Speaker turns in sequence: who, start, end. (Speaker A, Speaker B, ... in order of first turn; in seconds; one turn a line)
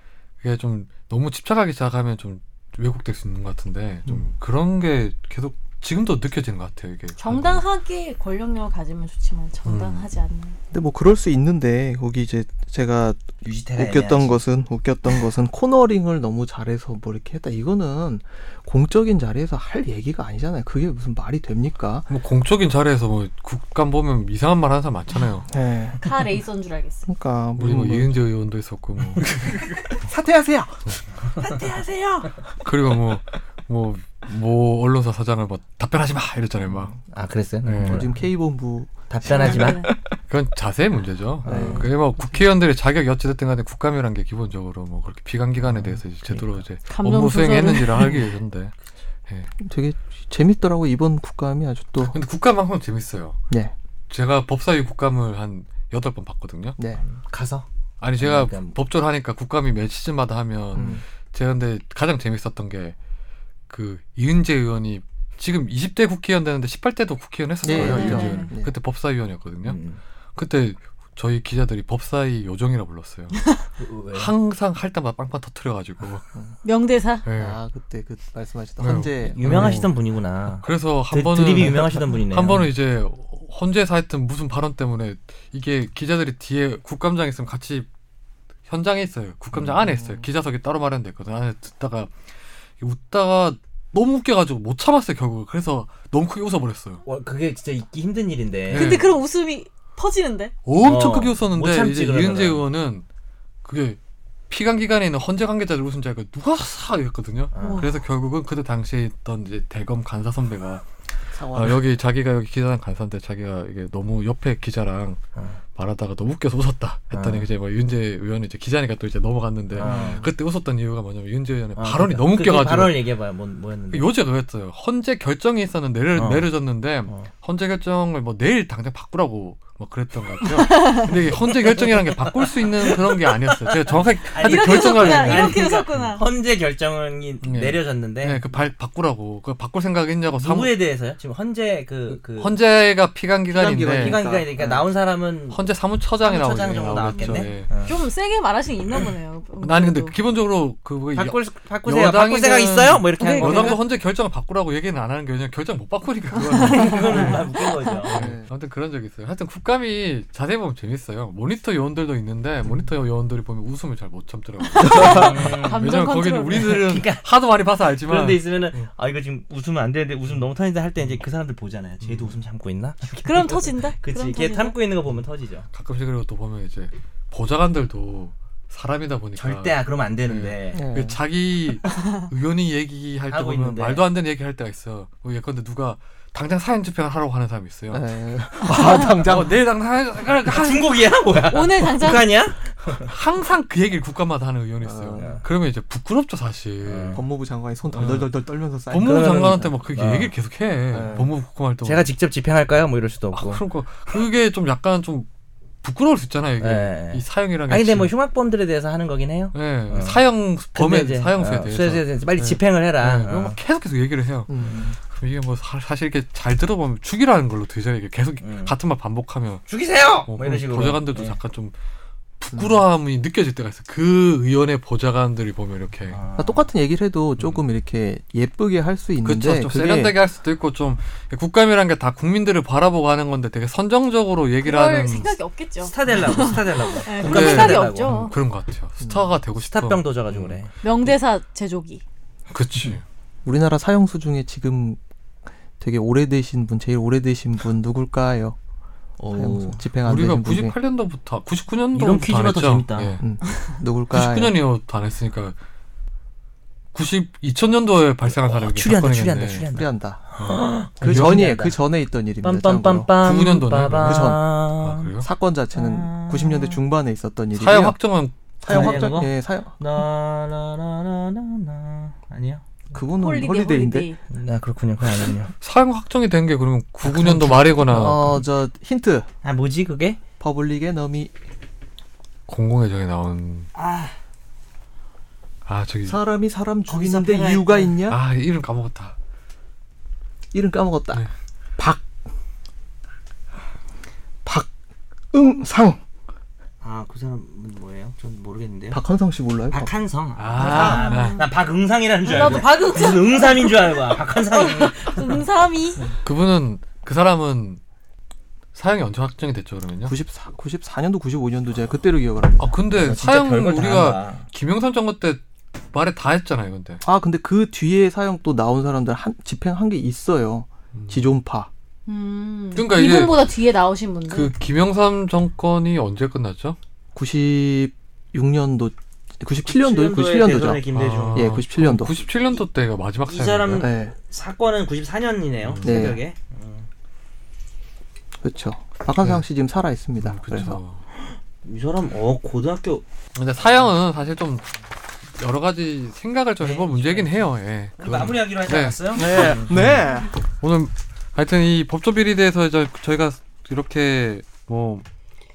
Speaker A: 0.4-7.6
Speaker B: 7.2-10.6
Speaker A: 9.6-10.1
Speaker C: 10.7-22.1
Speaker D: 13.4-14.4
Speaker A: 22.1-25.5
Speaker C: 25.5-26.1
Speaker B: 26.0-27.1
Speaker C: 27.1-28.2
Speaker A: 27.6-29.8
Speaker C: 29.2-32.2
Speaker D: 31.4-31.7
Speaker A: 32.6-36.9
Speaker D: 37.1-38.1
Speaker A: 37.6-38.1
Speaker C: 37.8-40.0
Speaker D: 39.1-39.9
Speaker B: 39.2-39.9
Speaker A: 40.3-48.7
Speaker D: 41.4-41.9
Speaker C: 41.5-41.9
Speaker D: 45.7-46.6
Speaker B: 46.9-48.1
Speaker C: 49.6-52.1
Speaker A: 52.0-53.4
Speaker A: 54.1-56.8
Speaker C: 56.8-57.0
Speaker D: 57.0-57.6
Speaker A: 58.0-62.9
Speaker D: 58.2-58.8
Speaker C: 60.7-61.0
Speaker A: 63.7-69.8
Speaker B: 67.6-68.5
Speaker C: 67.6-68.7
Speaker D: 69.6-70.0
Speaker A: 70.3-73.4
Speaker D: 73.8-74.3
Speaker A: 74.1-76.2
Speaker B: 76.6-77.2
Speaker A: 77.2-77.6
Speaker C: 77.3-79.8
Speaker A: 78.8-79.9
Speaker D: 79.3-82.7
Speaker A: 80.6-87.9
Speaker A: 88.7-92.1
Speaker C: 89.8-90.2
Speaker A: 92.8-97.0
Speaker D: 97.0-99.0
Speaker A: 98.7-99.2
Speaker B: 98.7-100.5
Speaker A: 100.6-103.0
Speaker D: 100.8-102.6
Speaker A: 103.6-104.0
Speaker A: 104.5-110.9
Speaker D: 107.5-107.9
Speaker B: 107.6-108.0
Speaker C: 111.3-111.8
Speaker A: 111.5-115.2
Speaker A: 115.7-123.0
Speaker D: 117.1-117.5
Speaker D: 119.7-120.2
Speaker C: 119.8-120.3
Speaker D: 121.8-124.1
Speaker A: 123.9-136.1
Speaker D: 126.1-126.5
Speaker B: 130.7-131.0
Speaker D: 131.5-138.4
Speaker B: 134.4-136.3
Speaker A: 137.4-140.8
Speaker D: 140.4-142.5
Speaker A: 142.1-144.2
Speaker C: 143.5-144.8
Speaker D: 143.9-145.6
Speaker A: 145.5-147.7
Speaker D: 146.2-148.0
Speaker B: 147.1-150.1
Speaker A: 149.6-157.4
Speaker D: 151.1-153.8
Speaker B: 153.2-153.8
Speaker B: 156.5-157.4
Speaker D: 156.6-158.1
Speaker A: 158.0-168.9
Speaker C: 158.0-158.5
Speaker B: 164.8-166.8
Speaker C: 164.8-165.1
Speaker D: 165.0-165.8
Speaker D: 166.5-167.2
Speaker D: 168.1-175.7
Speaker A: 172.0-172.3
Speaker B: 173.2-174.8
Speaker A: 175.7-188.1
Speaker D: 179.3-180.8
Speaker C: 180.7-181.2
Speaker D: 183.3-184.0
Speaker C: 187.9-189.5
Speaker A: 188.6-191.1
Speaker D: 190.3-193.1
Speaker B: 191.5-192.3
Speaker A: 192.9-197.2
Speaker C: 194.8-195.4
Speaker D: 195.2-195.4
Speaker D: 196.8-197.2
Speaker C: 197.1-199.3
Speaker A: 197.9-198.3
Speaker A: 198.9-202.1
Speaker D: 199.0-200.3
Speaker C: 200.9-201.3
Speaker D: 201.8-203.6
Speaker A: 203.3-205.3
Speaker A: 205.8-208.1
Speaker D: 206.6-210.2
Speaker A: 209.5-219.6
Speaker D: 210.7-213.6
Speaker C: 214.5-214.9
Speaker D: 218.4-218.7
Speaker D: 219.7-221.4
Speaker A: 220.2-221.7
Speaker A: 222.4-226.2
Speaker C: 222.5-222.8
Speaker D: 226.1-226.7
Speaker C: 226.4-230.2
Speaker A: 229.2-235.4
Speaker B: 234.6-238.3
Speaker D: 235.8-238.1
Speaker A: 237.2-240.6
Speaker C: 239.0-239.3
Speaker D: 239.6-240.7
Speaker B: 240.8-242.0
Speaker A: 242.5-243.0
Speaker C: 243.4-245.0
Speaker C: 245.8-248.6
Speaker D: 249.2-249.8
Speaker C: 249.3-250.7
Speaker A: 250.0-253.2
Speaker D: 251.9-253.1
Speaker C: 253.2-254.6
Speaker A: 254.1-255.6
Speaker A: 256.9-259.6
Speaker D: 258.3-261.8
Speaker C: 259.7-260.2
Speaker A: 260.4-261.6
Speaker C: 261.0-263.1
Speaker D: 262.4-265.2
Speaker A: 263.2-265.3
Speaker C: 264.0-264.4
Speaker C: 265.2-268.0
Speaker D: 265.7-266.8
Speaker A: 267.5-269.1
Speaker C: 268.6-269.8
Speaker D: 268.6-272.6
Speaker C: 272.9-274.1
Speaker B: 273.2-274.2
Speaker D: 274.3-275.5
Speaker A: 275.6-278.4
Speaker C: 277.0-279.3
Speaker D: 279.4-280.2
Speaker C: 280.4-281.3
Speaker A: 282.5-283.7
Speaker D: 283.7-284.1
Speaker A: 285.6-286.2
Speaker C: 286.1-288.2
Speaker D: 286.9-287.9
Speaker A: 288.1-289.1
Speaker C: 290.5-291.2
Speaker C: 291.8-292.0
Speaker C: 294.4-294.7
Speaker C: 295.3-296.0
Speaker D: 296.8-299.0
Speaker C: 298.9-299.9
Speaker D: 299.7-305.4
Speaker A: 300.4-301.4
Speaker B: 300.6-301.4
Speaker B: 302.2-306.1
Speaker A: 306.2-307.8
Speaker A: 308.7-310.1
Speaker C: 310.0-312.7
Speaker A: 312.6-315.4
Speaker D: 312.9-314.4
Speaker A: 315.9-317.0
Speaker C: 317.0-321.7
Speaker A: 320.9-321.3
Speaker B: 322.1-324.5
Speaker A: 322.7-323.5
Speaker A: 324.3-326.8
Speaker C: 327.1-332.1
Speaker D: 329.6-331.5
Speaker A: 330.9-333.9
Speaker D: 333.2-336.9
Speaker C: 333.8-334.1
Speaker A: 335.6-336.1
Speaker C: 335.8-336.2
Speaker C: 338.4-340.8
Speaker A: 339.2-339.4
Speaker A: 340.2-341.0
Speaker D: 341.1-343.0
Speaker A: 343.3-344.7
Speaker A: 345.4-355.0
Speaker D: 346.6-347.4
Speaker D: 348.0-349.7
Speaker C: 349.1-350.3